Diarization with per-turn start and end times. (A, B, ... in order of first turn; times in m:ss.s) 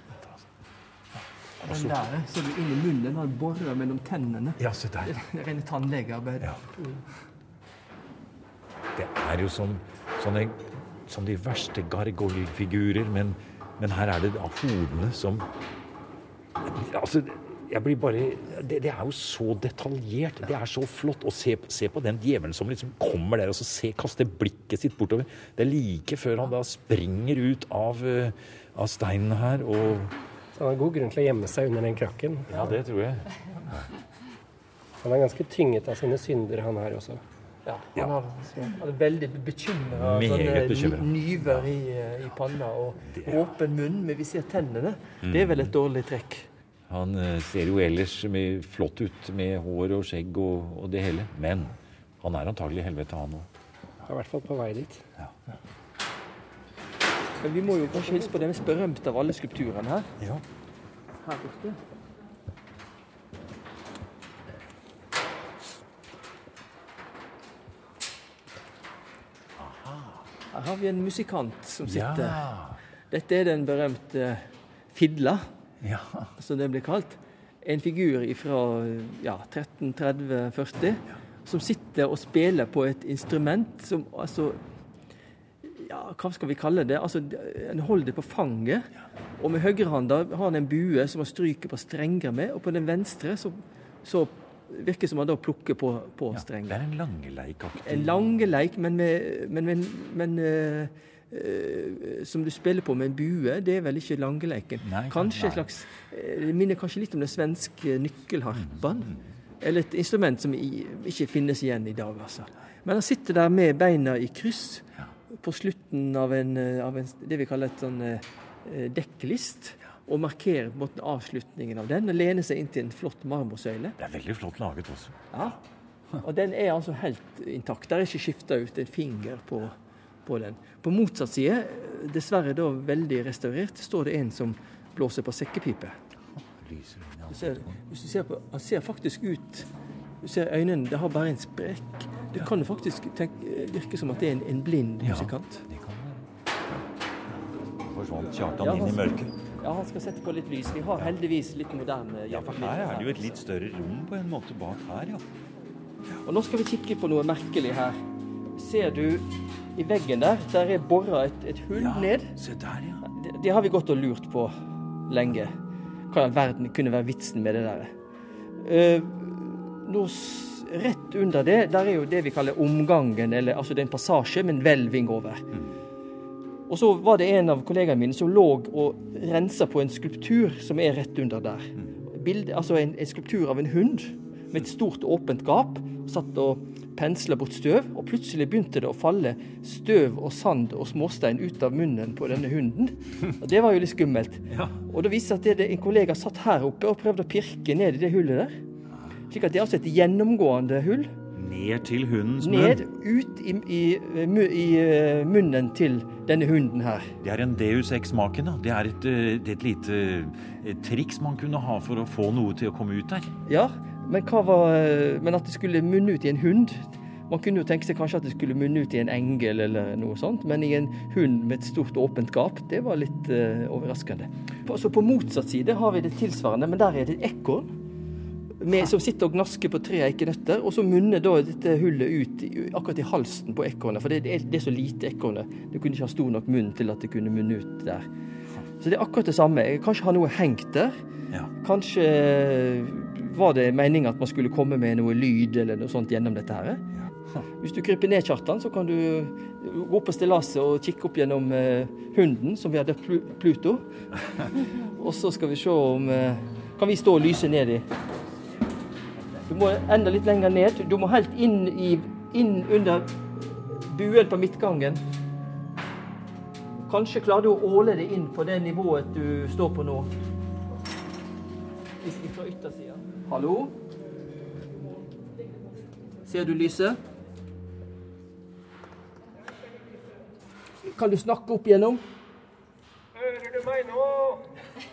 0:01.6-0:06.8 A
0:01.7-0:02.0 B
0:04.6-0:05.2 B
0:09.0-0:15.5 B
0:16.6-0:30.1 B
0:30.6-0:32.7 C
0:32.5-0:33.8 B
0:35.0-0:37.2 C
0:37.6-0:46.5 A
0:39.9-0:41.7 B
0:43.1-0:43.4 B
0:45.2-0:45.6 B
0:46.9-0:53.5 B
0:54.1-0:55.0 C
0:57.4-1:00.1 A
1:01.2-1:01.8 A
1:09.6-1:10.2 B
1:10.5-1:12.4 A
1:11.8-1:12.8 B
1:13.1-1:15.4 A
1:15.8-1:16.3 B
1:16.4-1:24.6 A
1:25.6-1:28.9 A
1:29.4-1:36.8 A
1:36.3-1:38.2 B
1:37.8-2:04.0 A
1:44.8-1:45.6 B
2:04.0-2:05.3 B
2:05.3-2:05.6 A
2:06.2-2:16.0 A
2:16.4-2:17.8 B
2:17.3-2:19.7 A
2:20.2-2:25.6 A
2:25.0-2:26.8 B
2:27.8-2:29.3 B
2:28.6-2:33.4 A
2:32.3-2:35.2 B
2:36.1-2:38.0 A
2:38.5-2:42.4 A
2:41.7-2:43.1 B
2:43.1-2:44.5 A
2:45.1-2:45.5 A
2:46.1-2:47.9 A
2:48.6-2:55.6 A
2:56.7-3:18.5 A
3:14.5-3:14.8 B
3:19.3-3:21.2 A
3:21.3-3:22.8 B
3:22.4-3:27.1 A
3:27.2-3:33.3 B
3:33.5-3:47.7 A
3:48.6-3:58.1 A
3:58.8-4:01.0 A
4:01.6-4:06.9 A
4:07.6-4:17.9 A
4:19.5-4:25.0 A
4:26.9-4:30.1 A
4:32.0-4:33.8 A
4:36.2-4:37.0 A
4:40.8-4:42.0 A
4:43.6-4:44.3 C